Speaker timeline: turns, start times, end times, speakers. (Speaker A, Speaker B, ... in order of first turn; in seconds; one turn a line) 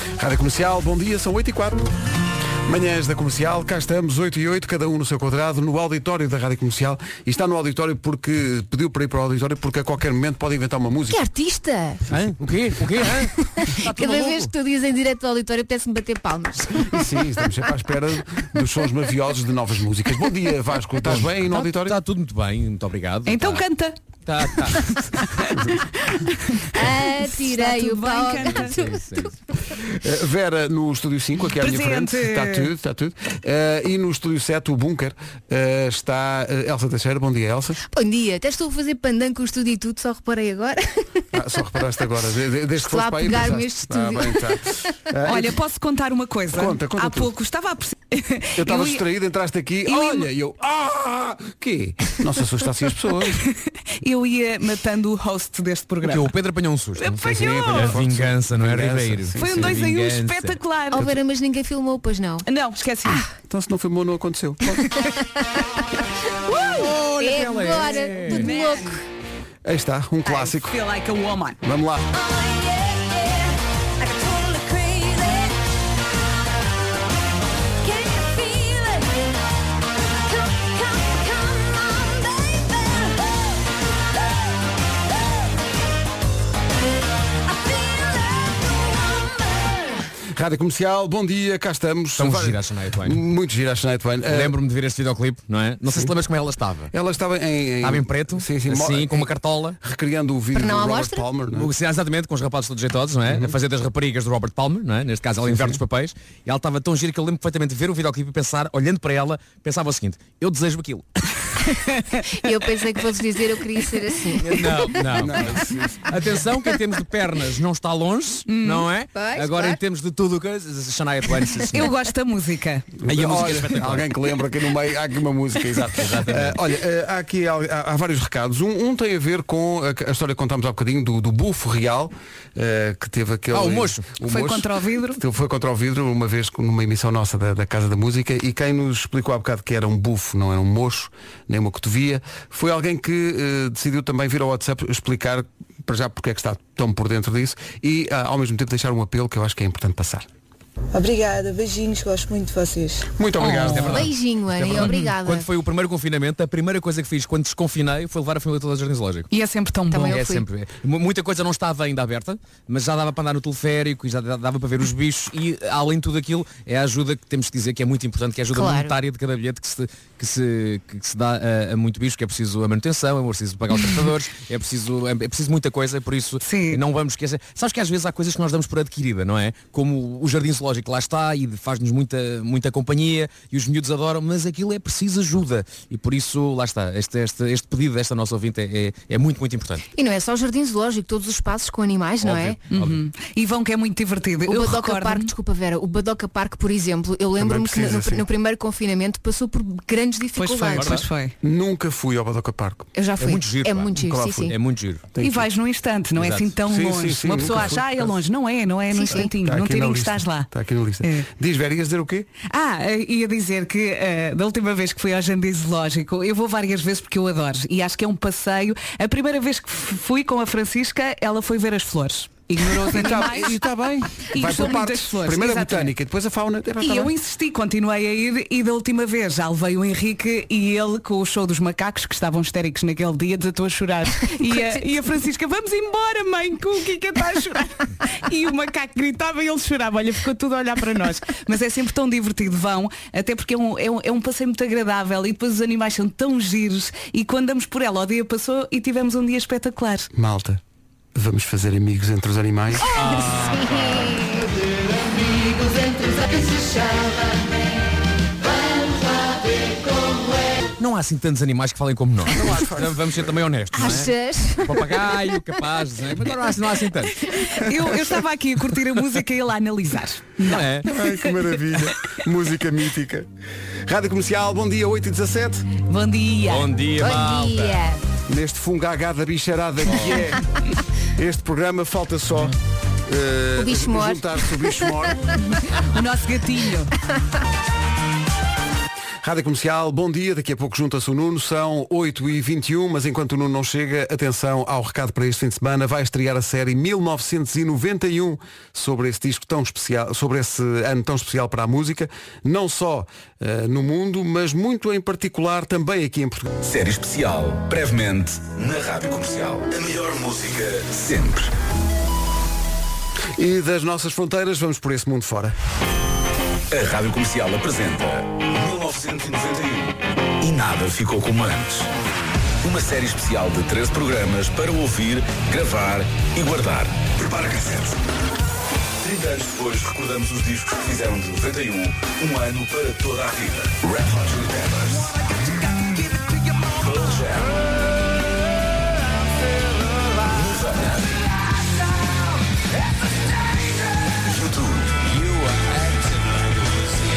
Speaker A: 0.2-1.9
Speaker A: 2.6-11.2
Speaker B: 11.1-12.1
Speaker C: 12.1-14.5
Speaker B: 13.1-17.2
Speaker A: 16.9-22.0
Speaker C: 21.1-23.6
Speaker D: 23.3-23.9
Speaker C: 24.2-24.9
Speaker D: 26.5-28.7
Speaker B: 26.7-29.3
Speaker C: 28.3-29.4
Speaker A: 29.8-37.8
Speaker D: 31.5-32.7
Speaker B: 37.9-41.2
Speaker A: 41.3-45.5
Speaker B: 42.8-44.8
Speaker D: 45.2-49.0
Speaker A: 46.5-47.3
Speaker A: 48.5-53.4
Speaker D: 49.9-50.3
Speaker D: 53.5-56.3
Speaker C: 56.0-60.6
Speaker D: 57.0-58.0
Speaker A: 57.2-59.8
Speaker D: 59.4-61.0
Speaker B: 60.9-62.5
Speaker D: 62.4-63.2
Speaker A: 63.5-64.9
Speaker B: 64.9-65.7
Speaker C: 66.7-68.5
Speaker B: 67.2-69.0
Speaker D: 68.2-69.0
Speaker A: 69.6-70.8
Speaker D: 70.2-71.6
Speaker A: 71.6-72.0
Speaker A: 90.3-94.5
Speaker C: 92.2-93.2
Speaker C: 94.3-96.9
Speaker A: 96.9-101.7
Speaker C: 97.8-99.8
Speaker B: 100.5-101.2
Speaker C: 101.5-111.0
Speaker A: 103.3-103.5
Speaker A: 105.4-105.8
Speaker B: 112.3-115.2
Speaker C: 114.4-121.9
Speaker A: 115.1-116.1
Speaker D: 118.5-118.9
Speaker B: 119.1-119.8
Speaker D: 121.7-122.9
Speaker C: 123.0-124.1
Speaker A: 123.0-150.3
Speaker C: 126.0-126.6
Speaker C: 133.5-134.1
Speaker D: 134.2-135.2
Speaker E: 150.9-153.0
Speaker A: 153.2-154.1
Speaker D: 153.4-153.9
Speaker C: 153.6-159.3
Speaker B: 153.8-155.5
Speaker D: 159.3-160.2
Speaker B: 159.9-160.4
Speaker C: 160.0-189.8
Speaker B: 168.5-168.9
Speaker D: 176.4-176.8
Speaker B: 189.9-192.6
Speaker C: 192.2-193.0
Speaker D: 192.7-195.3
Speaker B: 194.5-201.0
Speaker A: 197.3-198.3
Speaker D: 200.3-201.3
Speaker C: 200.7-201.1
Speaker A: 201.4-202.9
Speaker B: 202.9-204.6
Speaker C: 203.2-205.0
Speaker A: 204.0-204.5
Speaker A: 205.1-205.4
Speaker D: 205.2-210.5
Speaker C: 206.2-206.5
Speaker A: 206.7-208.1
Speaker B: 208.9-209.3
Speaker A: 209.1-212.3
Speaker D: 211.0-211.3
Speaker D: 212.5-223.6
Speaker A: 222.7-227.1
Speaker D: 224.2-225.9
Speaker D: 226.8-250.1
Speaker A: 250.1-250.6
Speaker A: 251.1-252.9
Speaker C: 252.9-254.2
Speaker B: 253.0-257.6
Speaker B: 258.4-260.6
Speaker C: 260.8-267.3
Speaker A: 262.2-263.2
Speaker B: 263.7-265.4
Speaker D: 267.4-271.1
Speaker C: 270.4-270.9
Speaker A: 270.8-273.3
Speaker A: 273.9-275.7
Speaker D: 275.9-276.7
Speaker C: 276.4-277.9
Speaker B: 277.0-278.0
Speaker A: 278.3-280.5
Speaker A: 281.1-282.5
Speaker A: 283.1-285.4
Speaker B: 283.6-284.9
Speaker D: 285.7-286.9
Speaker A: 289.2-306.5
Speaker F: 306.6-311.5
Speaker A: 313.4-315.5
Speaker F: 316.7-321.9
Speaker F: 322.6-328.0
Speaker F: 329.0-335.2
Speaker F: 336.7-337.6
Speaker F: 340.2-341.2
Speaker F: 344.1-345.2